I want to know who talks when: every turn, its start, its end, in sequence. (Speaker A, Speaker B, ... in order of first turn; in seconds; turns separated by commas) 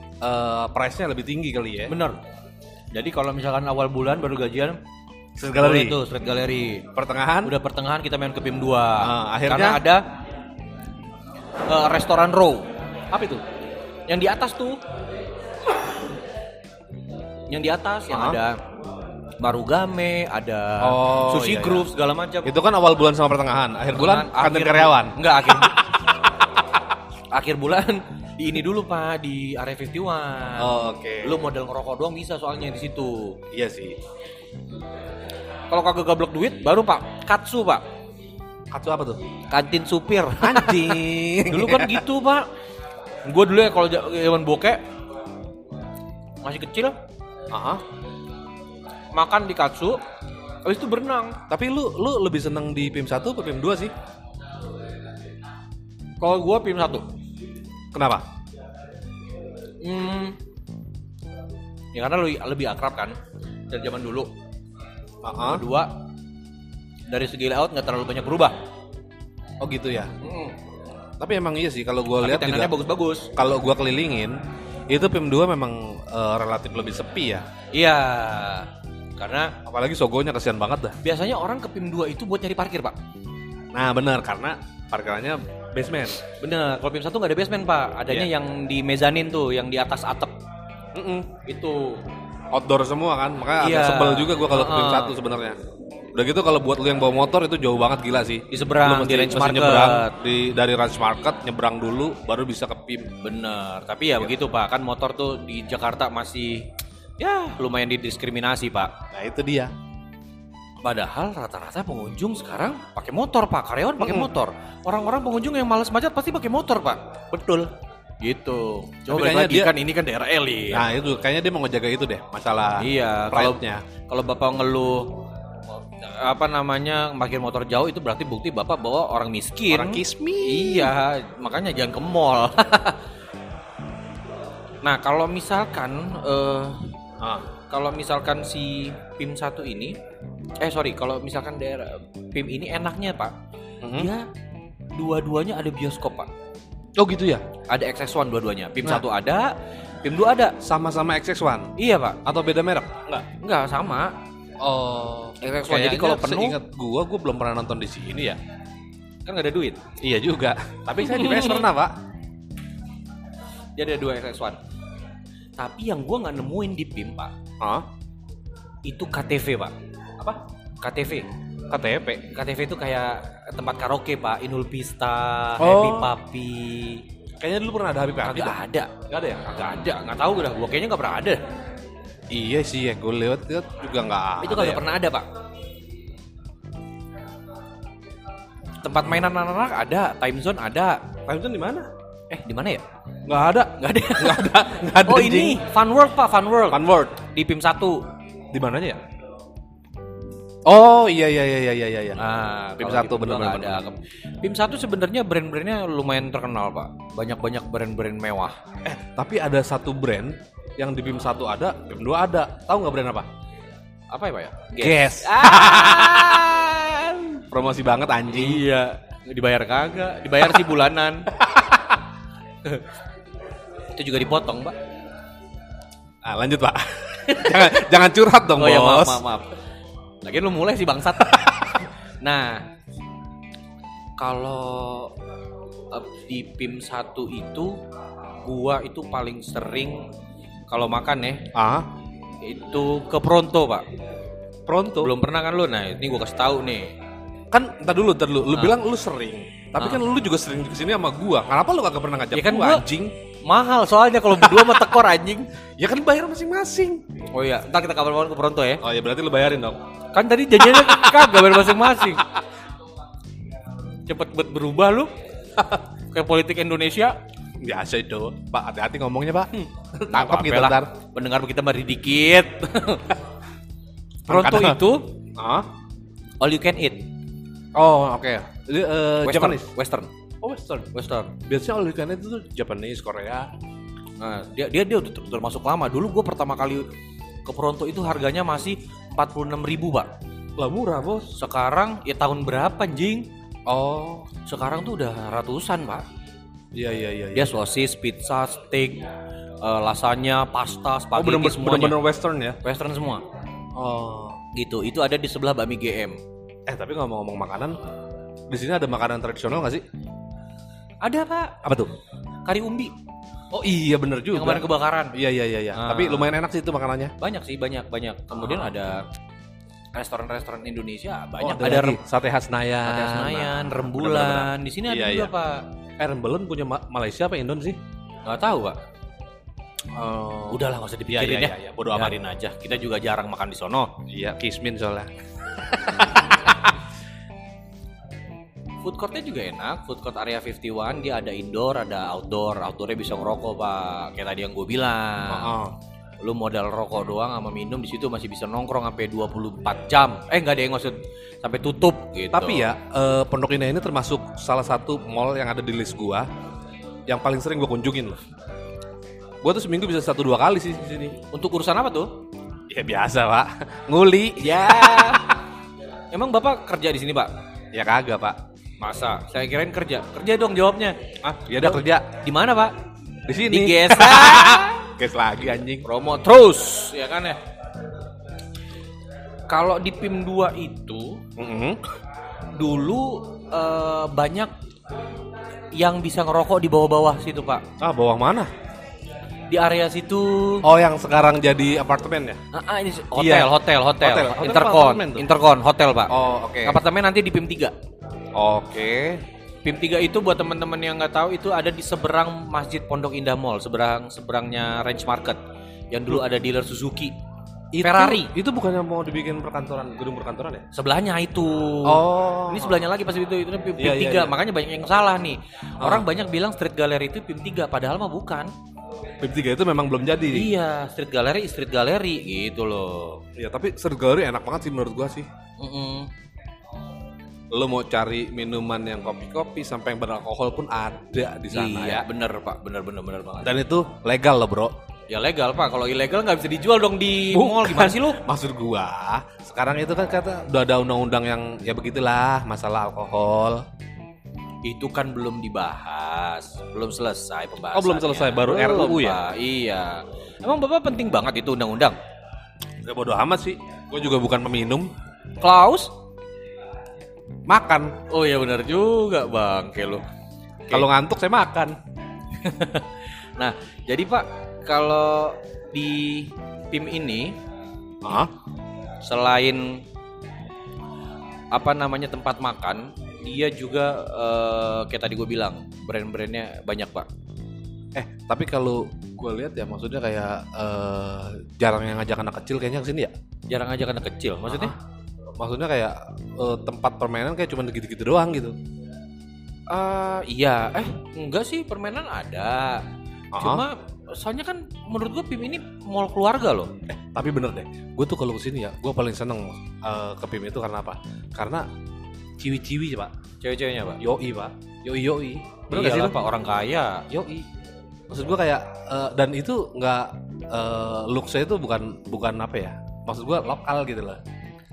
Speaker A: 0.2-1.9, Speaker B: 1.9-2.2, Speaker B: 2.9-4.8, Speaker A: 5.4-6.0, Speaker B: 5.5-6.8, Speaker A: 6.9-7.5, Speaker B: 7.4-10.0, Speaker A: 9.0-9.8, Speaker B: 11.7-12.7, Speaker A: 13.1-13.4, Speaker B: 14.1-14.8, Speaker B: 17.5-18.6, Speaker A: 18.1-18.4, Speaker B: 19.4-22.5, Speaker A: 20.8-21.9, Speaker A: 22.4-26.0, Speaker B: 23.9-25.8, Speaker B: 27.3-30.7, Speaker A: 30.6-31.4, Speaker B: 31.2-33.4, Speaker A: 33.5-34.0, Speaker B: 35.7-37.8, Speaker A: 38.7-39.2, Speaker B: 39.5-42.5, Speaker A: 40.4-42.0, Speaker B: 43.2-44.8, Speaker B: 46.4-47.0, Speaker A: 47.5-47.8, Speaker B: 49.1-50.0, Speaker B: 50.6-51.4, Speaker A: 51.5-53.9, Speaker B: 56.2-57.0, Speaker A: 57.9-58.2, Speaker B: 59.8-60.4, Speaker B: 61.9-63.2, Speaker B: 63.7-64.3, Speaker A: 65.2-65.6, Speaker B: 65.4-65.9, Speaker B: 67.1-68.5, Speaker A: 69.6-70.1, Speaker B: 70.2-70.5, Speaker A: 71.2-72.7, Speaker B: 72.2-73.3, Speaker A: 73.3-74.4, Speaker A: 74.9-77.5, Speaker B: 77.7-79.5, Speaker A: 79.6-81.0, Speaker B: 81.0-83.0, Speaker A: 83.7-86.2, Speaker B: 86.2-90.3, Speaker A: 90.9-91.3, Speaker B: 91.4-92.0, Speaker A: 92.5-95.6, Speaker B: 93.6-95.1, Speaker A: 96.1-103.1, Speaker B: 98.5-100.1, Speaker B: 103.2-106.7, Speaker B: 107.2-108.9, Speaker A: 109.1-109.7, Speaker B: 110.8-120.9, Speaker A: 114.0-114.3, Speaker A: 119.1-119.7, Speaker A: 120.7-123.8, Speaker B: 122.8-125.1, Speaker B: 126.0-133.0, Speaker A: 129.7-130.9, Speaker B: 134.8-136.9, Speaker A: 137.2-137.5, Speaker B: 137.7-139.9, Speaker B: 140.6-143.3, Speaker A: 143.8-144.1, Speaker B: 143.9-144.2, Speaker B: 144.9-146.3, Speaker A: 146.9-147.4, Speaker B: 147.7-150.6, Speaker A: 150.6-151.7, Speaker B: 151.8-152.2, Speaker A: 152.2-153.3, Speaker B: 153.4-154.1, Speaker A: 154.6-158.4, Speaker B: 155.4-156.6, Speaker B: 159.2-159.8, Speaker A: 160.0-161.9, Speaker B: 161.0-161.7, Speaker B: 163.8-164.6, Speaker B: 165.6-167.3, Speaker A: 167.6-167.8, Speaker B: 168.8-169.7, Speaker B: 170.8-171.2, Speaker A: 171.7-172.2, Speaker B: 172.3-177.0, Speaker A: 175.6-176.1, Speaker A: 177.4-179.6, Speaker B: 178.2-178.9, Speaker B: 179.4-181.4, Speaker A: 182.3-184.8, Speaker B: 184.4-185.3, Speaker B: 188.8-191.0, Speaker A: 191.2-191.9, Speaker B: 192.3-192.8, Speaker A: 193.3-195.6, Speaker B: 193.8-198.0, Speaker A: 196.7-197.2, Speaker A: 198.5-199.0, Speaker A: 200.7-202.2, Speaker B: 202.2-208.6, Speaker A: 202.8-203.8, Speaker A: 208.8-213.3, Speaker B: 214.1-217.4, Speaker A: 214.8-216.5, Speaker A: 217.5-218.6, Speaker B: 218.3-221.3, Speaker A: 221.5-221.8, Speaker B: 223.9-224.7, Speaker A: 226.2-229.2, Speaker B: 227.3-227.8, Speaker B: 228.6-229.5, Speaker B: 230.2-232.6, Speaker B: 234.2-235.1, Speaker B: 235.9-237.8, Speaker B: 238.4-240.1, Speaker B: 240.7-241.4, Speaker A: 241.5-241.9, Speaker B: 242.4-243.8, Speaker A: 244.7-245.1, Speaker B: 245.0-246.9, Speaker A: 247.5-253.1, Speaker B: 252.3-252.8, Speaker B: 253.4-255.5, Speaker A: 254.4-254.8, Speaker A: 255.8-257.0, Speaker B: 257.3-258.8, Speaker A: 258.8-259.8, Speaker B: 260.1-262.3, Speaker A: 260.6-262.4, Speaker B: 264.1-265.1, Speaker B: 266.1-267.2, Speaker A: 267.6-270.9, Speaker B: 270.1-273.2, Speaker B: 274.3-275.1, Speaker A: 274.3-274.8, Speaker A: 275.3-275.7, Speaker B: 276.4-277.1, Speaker A: 277.7-279.7, Speaker B: 279.2-280.1, Speaker A: 280.4-280.9, Speaker B: 280.9-281.3, Speaker A: 281.4-283.5, Speaker B: 284.2-286.9, Speaker B: 287.4-290.1, Speaker A: 290.6-291.3, Speaker B: 291.4-293.3, Speaker A: 293.7-294.3, Speaker B: 294.4-296.1, Speaker A: 296.7-297.6, Speaker B: 297.3-299.0, Speaker B: 299.6-302.0, Speaker A: 301.2-302.6, Speaker B: 302.6-303.2, Speaker A: 303.8-304.4, Speaker B: 304.5-306.2, Speaker A: 306.7-307.8, Speaker A: 308.5-309.8, Speaker B: 311.0-311.6, Speaker A: 311.6-311.9, Speaker B: 312.4-312.9, Speaker A: 313.5-317.1, Speaker B: 314.3-315.1, Speaker B: 315.7-316.3, Speaker B: 317.2-319.0, Speaker B: 319.9-322.0, Speaker A: 321.4-325.3, Speaker B: 322.8-325.6, Speaker A: 326.0-327.8, Speaker B: 328.2-328.8, Speaker B: 329.9-333.9, Speaker A: 331.1-332.2, Speaker A: 334.1-336.6, Speaker B: 335.9-336.2, Speaker B: 338.8-345.6, Speaker A: 345.3-345.7, Speaker B: 346.2-352.7, Speaker A: 352.3-356.3, Speaker A: 357.1-358.2, Speaker A: 359.4-361.2, Speaker B: 361.3-362.1, Speaker A: 362.7-365.4, Speaker B: 364.4-365.2, Speaker B: 366.1-367.3, Speaker A: 367.7-368.4, Speaker B: 368.8-371.0, Speaker A: 371.2-372.1, Speaker B: 371.6-372.7, Speaker A: 373.3-375.9, Speaker B: 373.5-374.9, Speaker B: 375.8-377.4, Speaker B: 379.5-381.2, Speaker A: 381.4-381.8, Speaker B: 382.6-384.5, Speaker B: 385.7-387.6, Speaker A: 387.8-388.5, Speaker B: 389.5-390.7, Speaker A: 390.6-392.4, Speaker B: 392.5-397.7, Speaker A: 393.1-395.3, Speaker A: 396.1-396.8, Speaker A: 398.3-399.2, Speaker B: 399.6-405.4, Speaker B: 405.9-407.2, Speaker A: 407.7-410.6, Speaker B: 407.8-408.3, Speaker B: 410.7-418.5, Speaker A: 411.8-412.8, Speaker A: 413.8-414.3, Speaker A: 415.8-416.1, Speaker A: 419.2-420.5, Speaker B: 420.3-423.2, Speaker A: 423.4-425.3, Speaker B: 425.6-426.1, Speaker A: 427.5-432.1, Speaker B: 431.5-433.5, Speaker A: 433.4-434.7, Speaker B: 435.1-438.2, Speaker A: 437.3-443.6, Speaker B: 444.6-451.9, Speaker A: 447.7-449.2, Speaker A: 452.8-454.9, Speaker B: 455.4-455.9, Speaker A: 457.5-457.9, Speaker B: 458.1-460.0, Speaker A: 460.7-461.8, Speaker B: 462.4-467.3, Speaker A: 468.0-468.3, Speaker B: 469.0-469.8, Speaker B: 471.5-477.1, Speaker A: 477.9-483.1, Speaker B: 483.5-484.7, Speaker A: 484.5-484.7, Speaker A: 485.4-488.6, Speaker B: 489.7-492.8, Speaker A: 493.3-493.6, Speaker B: 493.4-496.7, Speaker A: 496.9-501.7, Speaker A: 502.4-503.1, Speaker B: 503.4-504.0, Speaker A: 504.0-506.2, Speaker B: 505.7-507.0, Speaker A: 507.1-507.5, Speaker A: 508.1-514.2